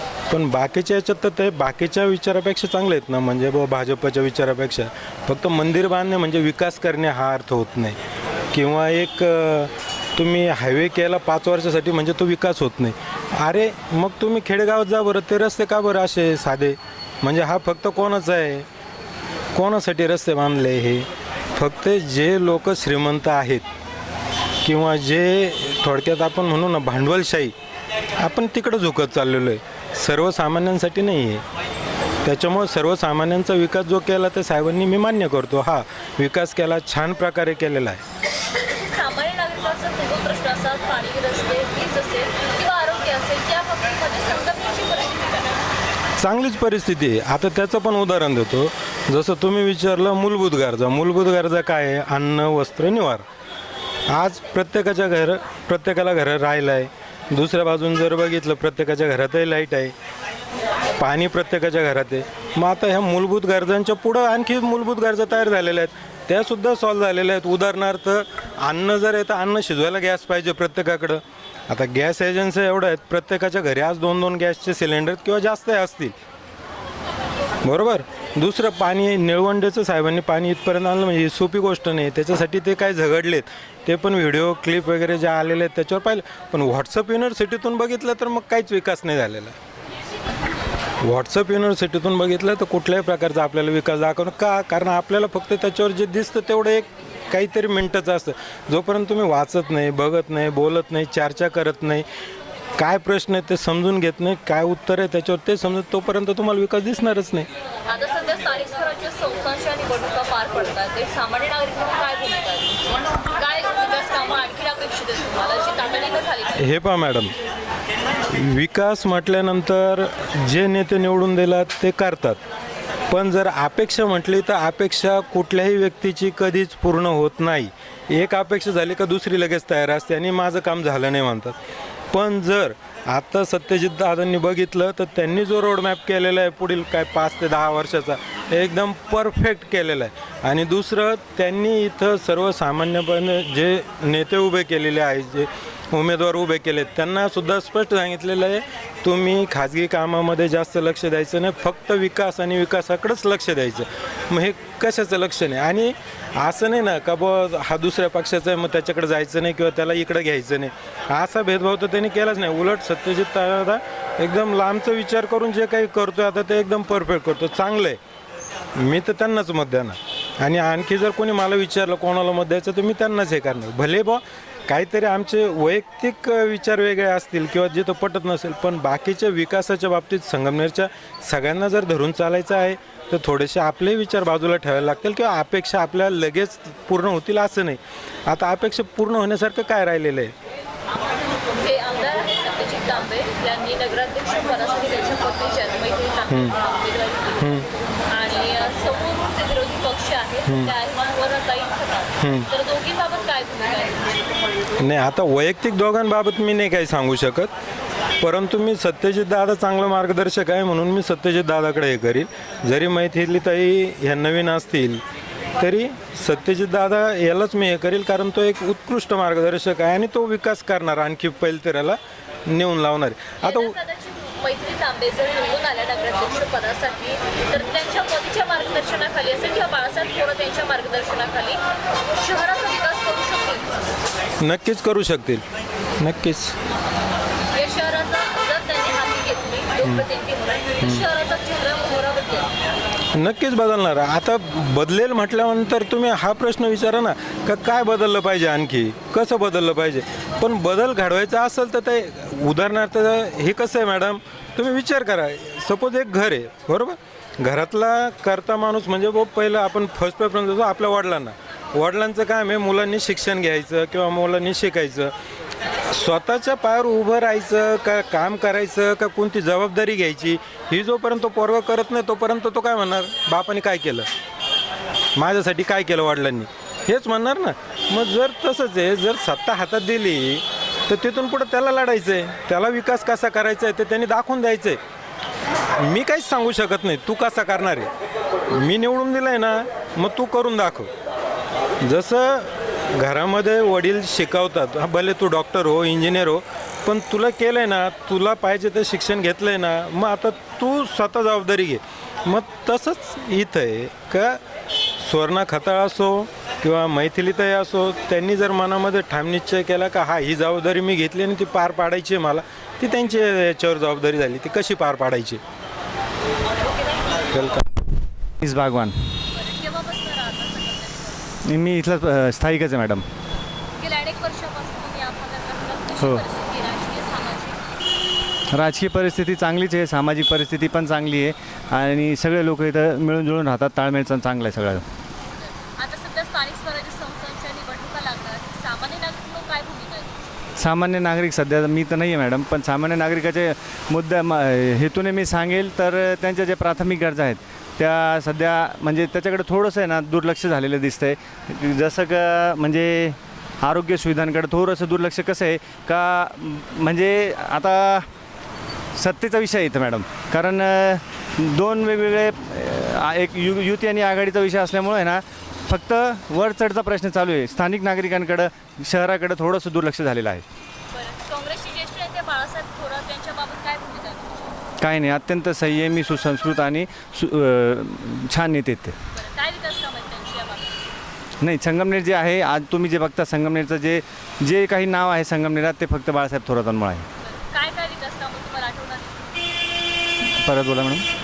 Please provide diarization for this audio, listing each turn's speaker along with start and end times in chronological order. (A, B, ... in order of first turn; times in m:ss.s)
0:00.3-0:08.0 A
0:08.5-0:18.6 A
0:19.5-0:23.6 A
0:24.6-0:27.5 A
0:28.2-0:31.4 A
0:32.2-0:38.0 A
0:38.6-0:45.6 B
0:46.2-0:53.2 A
0:54.1-0:59.9 A
1:01.0-1:16.1 A
1:17.6-1:29.5 A
1:31.0-1:42.0 A
1:42.8-1:47.5 A
1:47.8-1:56.6 B
1:56.6-1:57.3 A
1:58.3-2:02.4 A
2:03.1-2:11.5 A
2:12.1-2:48.0 A
2:48.8-3:10.3 A
3:11.5-3:17.5 B
3:16.3-3:16.6 A
3:17.4-3:17.7 A
3:18.1-3:24.4 B
3:20.5-3:20.7 A
3:22.2-3:22.5 A
3:24.8-3:27.5 A
3:28.2-3:35.0 A
3:35.6-3:43.8 A
3:43.4-3:51.6 B
3:52.2-3:53.7 B
3:54.4-3:55.4 A
3:56.0-3:56.5 A
3:57.5-4:02.5 B
4:03.1-4:25.1 A
4:25.9-4:34.1 A
4:35.2-4:44.8 A
4:45.7-4:47.9 A
4:48.5-4:50.9 A
4:51.8-5:04.4 A
5:05.0-5:15.4 A
5:17.3-5:17.6 A
5:18.4-5:18.9 C
5:19.3-5:21.4 B
5:21.4-5:23.0 C
5:23.7-5:27.6 B
5:26.0-5:26.2 C
5:28.5-5:34.8 C
5:35.2-5:40.5 B
5:40.6-5:58.1 C
5:59.0-6:10.4 C
6:10.9-6:14.7 B
6:14.8-6:18.9 C
6:19.1-6:20.9 B
6:21.4-6:27.1 C
6:27.2-6:29.5 B
6:30.4-6:31.0 C